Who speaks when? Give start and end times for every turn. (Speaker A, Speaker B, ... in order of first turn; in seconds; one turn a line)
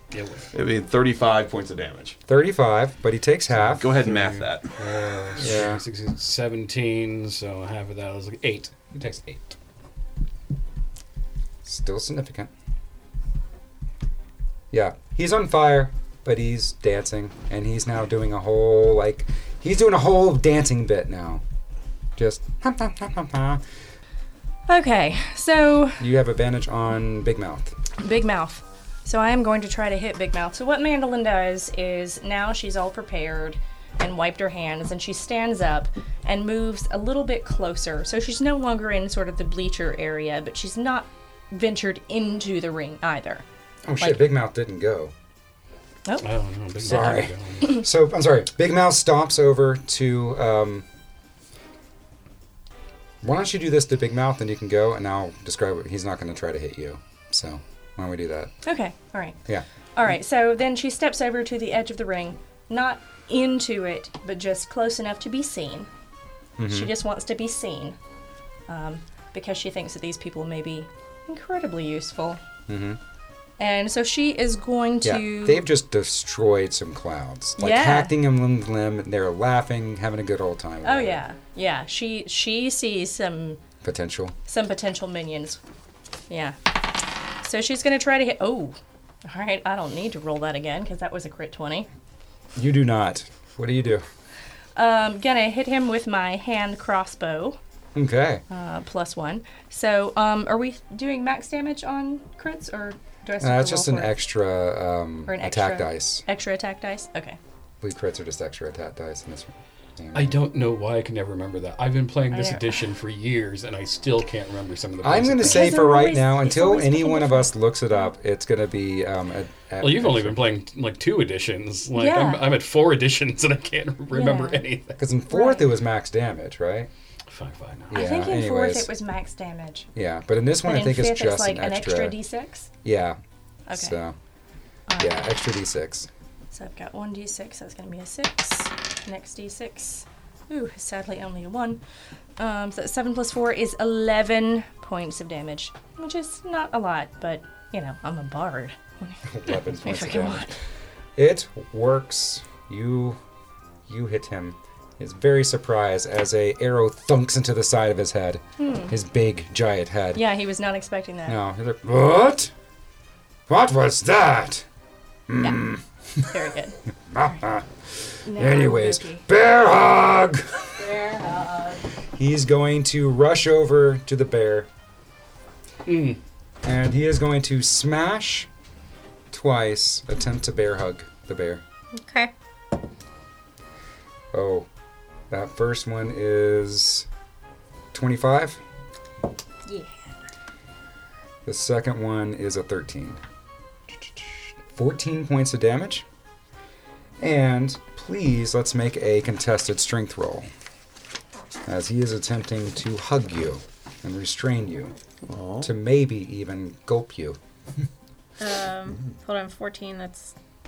Speaker A: 0.1-0.5
Speaker B: 0.5-2.2
Speaker C: 2.3-3.8
Speaker B: 3.6-4.7
Speaker A: 4.0-9.6
Speaker C: 5.4-5.8
Speaker C: 11.7-12.5
Speaker C: 14.7-21.4
Speaker C: 22.2-23.6
Speaker D: 24.7-26.1
Speaker C: 26.0-27.8
Speaker D: 28.0-43.4
Speaker C: 43.9-45.1
Speaker A: 46.2-47.8
Speaker C: 46.8-50.9
Speaker C: 53.2-58.5
Speaker D: 58.6-59.4
Speaker D: 60.0-65.9
Speaker C: 66.6-66.9
Speaker D: 66.7-68.0
Speaker D: 68.7-72.4
Speaker C: 72.7-73.0
Speaker D: 73.6-75.7
Speaker C: 75.0-81.2
Speaker D: 77.6-78.2
Speaker D: 80.8-83.6
Speaker C: 83.8-84.4
Speaker D: 84.5-85.6
Speaker D: 86.3-86.6
Speaker D: 87.4-91.9
Speaker C: 92.5-94.0
Speaker D: 94.8-97.6
Speaker C: 98.0-98.4
Speaker D: 98.5-104.2
Speaker C: 103.4-106.2
Speaker D: 105.3-107.4
Speaker C: 107.8-110.4
Speaker A: 110.1-115.8
Speaker D: 112.3-112.8
Speaker C: 115.0-120.4
Speaker D: 115.4-117.5
Speaker A: 119.8-125.0
Speaker D: 121.9-122.5
Speaker D: 124.1-124.6
Speaker C: 125.0-126.9
Speaker D: 125.3-125.7
Speaker A: 127.3-128.0
Speaker C: 127.9-128.9
Speaker D: 127.9-129.9
Speaker C: 129.9-132.2
Speaker D: 130.7-132.7
Speaker C: 132.8-133.2
Speaker D: 133.7-134.0
Speaker C: 133.7-134.2
Speaker D: 134.9-135.3
Speaker C: 135.0-136.1
Speaker D: 136.5-141.8
Speaker D: 142.4-150.6
Speaker C: 149.2-150.5
Speaker C: 151.2-153.2
Speaker C: 153.9-160.2
Speaker D: 158.6-158.9
Speaker D: 160.2-161.4
Speaker C: 161.3-162.5
Speaker C: 163.5-164.7
Speaker C: 165.3-166.3
Speaker D: 166.2-167.4
Speaker C: 167.1-167.7
Speaker D: 168.2-169.3
Speaker C: 168.3-170.7
Speaker D: 170.8-171.8
Speaker C: 172.2-174.7
Speaker A: 175.9-176.2
Speaker C: 176.6-178.5
Speaker C: 179.3-181.6
Speaker E: 181.9-182.3
Speaker C: 184.3-184.7
Speaker C: 185.3-187.1
Speaker C: 187.9-188.6
Speaker E: 189.7-189.9
Speaker C: 191.4-193.2
Speaker C: 194.0-196.1
Speaker C: 197.2-200.5
Speaker C: 201.7-204.9
Speaker B: 205.3-205.7
Speaker C: 205.6-207.4
Speaker E: 208.4-210.3